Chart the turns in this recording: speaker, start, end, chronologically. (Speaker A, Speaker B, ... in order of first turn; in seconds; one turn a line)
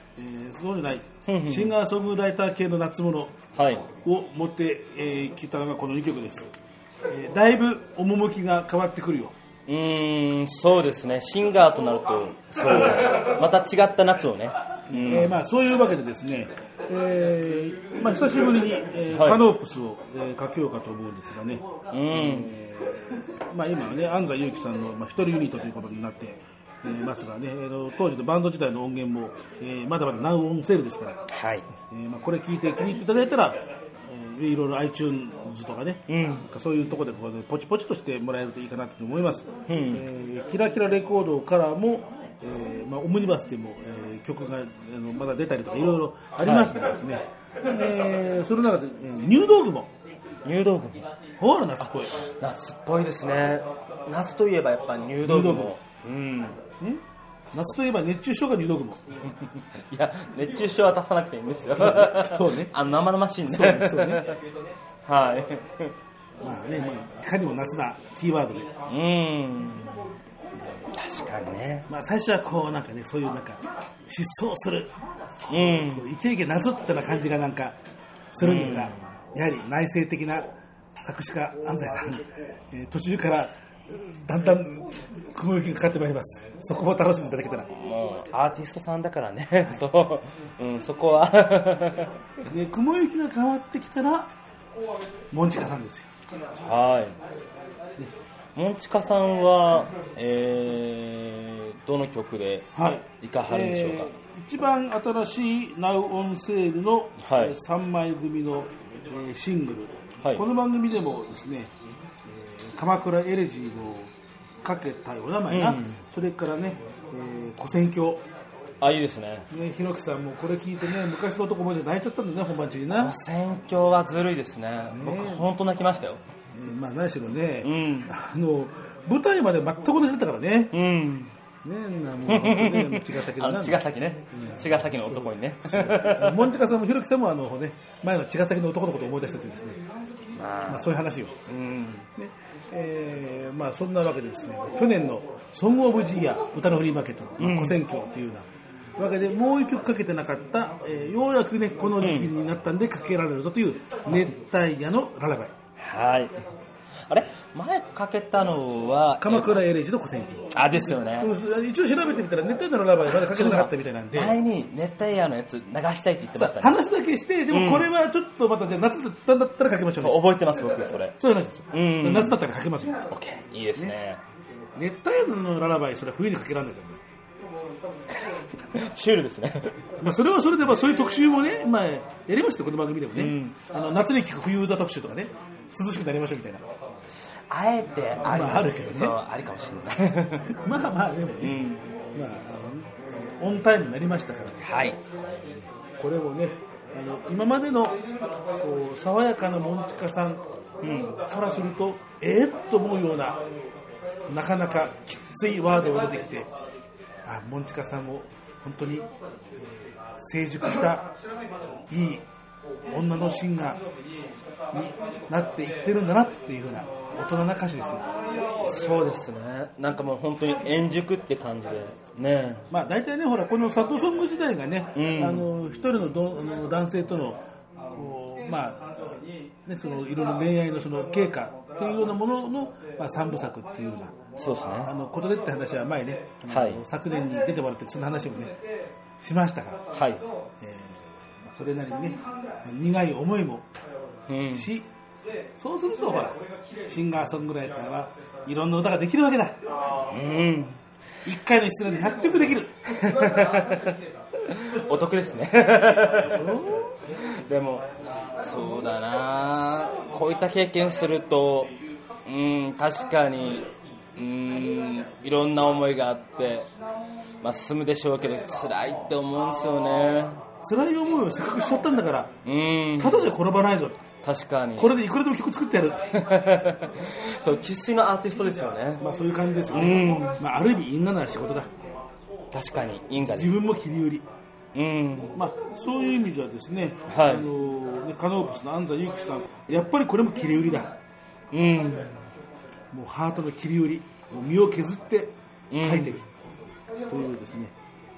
Speaker A: 0.1-3.4
Speaker B: 1.3-1.8
Speaker B: 3.5-3.9
Speaker A: 4.0-6.5
Speaker A: 7.1-9.3
Speaker B: 9.7-15.4
Speaker A: 14.9-31.2
Speaker B: 19.1-19.5
Speaker B: 21.9-22.5
Speaker B: 31.3-31.7
Speaker A: 31.9-49.9
Speaker B: 36.1-36.4
Speaker B: 39.7-40.0
Speaker B: 46.3-47.0
Speaker B: 50.4-51.1
Speaker A: 51.4-52.2
Speaker B: 51.8-56.6
Speaker A: 55.2-55.8
Speaker A: 57.5-59.0
Speaker B: 59.4-64.4
Speaker A: 61.7-62.7
Speaker A: 63.4-64.2
Speaker B: 65.0-65.9
Speaker A: 66.4-68.7
Speaker B: 68.8-70.1
Speaker A: 70.6-70.8
Speaker B: 70.9-71.9
Speaker A: 71.9-74.9
Speaker A: 75.4-77.8
Speaker B: 75.5-76.0
Speaker A: 78.3-87.7
Speaker B: 78.4-79.1
Speaker B: 87.7-92.1
Speaker A: 92.5-94.3
Speaker A: 95.3-96.1
Speaker B: 96.5-97.2
Speaker B: 98.5-104.1
Speaker A: 102.7-111.7
Speaker B: 107.2-107.5
Speaker A: 112.3-114.1
Speaker A: 114.6-118.2
Speaker B: 115.5-116.0
Speaker B: 118.8-119.5
Speaker A: 119.5-123.1
Speaker B: 122.9-126.2
Speaker A: 124.9-125.5
Speaker A: 126.5-130.8
Speaker B: 127.6-128.1
Speaker B: 130.7-131.3
Speaker A: 131.6-139.8
Speaker B: 132.3-136.6
Speaker B: 140.3-140.9
Speaker A: 140.7-141.3
Speaker B: 141.4-142.1
Speaker A: 142.2-155.5
Speaker B: 147.4-147.8
Speaker B: 152.0-152.3
Speaker B: 155.8-156.4
Speaker B: 157.1-159.7
Speaker A: 159.2-164.4
Speaker B: 160.5-161.3
Speaker B: 163.0-166.8
Speaker A: 166.3-170.3
Speaker B: 167.5-167.9
Speaker B: 170.0-171.2
Speaker A: 171.2-173.1
Speaker B: 171.7-172.4
Speaker B: 173.1-174.2
Speaker A: 174.8-177.0
Speaker B: 178.2-179.9
Speaker A: 180.0-186.6
Speaker B: 183.1-183.5
Speaker B: 187.5-190.6
Speaker A: 188.2-189.2
Speaker A: 190.6-191.6
Speaker B: 191.4-191.9
Speaker A: 192.1-194.6
Speaker B: 194.6-195.0
Speaker A: 195.2-198.0
Speaker A: 198.6-200.5
Speaker B: 200.8-201.2
Speaker A: 201.2-203.4
Speaker A: 204.3-206.5
Speaker A: 207.2-209.1
Speaker A: 209.6-211.1
Speaker A: 211.9-212.2
Speaker A: 212.9-213.8
Speaker A: 214.7-218.2
Speaker B: 218.6-222.7
Speaker A: 222.7-234.2
Speaker B: 224.9-225.5
Speaker B: 234.4-234.9
Speaker A: 234.8-238.6
Speaker B: 236.4-236.8
Speaker A: 239.2-239.8
Speaker B: 239.9-240.2
Speaker A: 240.6-243.7
Speaker B: 244.3-244.7
Speaker A: 244.5-244.9
Speaker A: 245.5-249.6
Speaker B: 250.1-250.8
Speaker A: 251.2-252.8
Speaker B: 252.9-261.7
Speaker A: 256.2-256.9
Speaker B: 262.2-266.7
Speaker B: 267.4-270.4
Speaker A: 270.6-272.4
Speaker B: 272.4-273.4
Speaker A: 272.9-274.0
Speaker B: 274.2-275.0
Speaker A: 274.8-276.1
Speaker B: 276.1-279.0
Speaker A: 279.0-281.7
Speaker B: 279.7-280.4
Speaker B: 282.5-283.6
Speaker A: 283.2-284.3
Speaker B: 284.7-285.3
Speaker A: 285.3-290.9
Speaker B: 287.1-287.5
Speaker B: 291.5-292.1
Speaker A: 292.9-296.2
Speaker B: 295.7-296.2
Speaker A: 297.0-297.7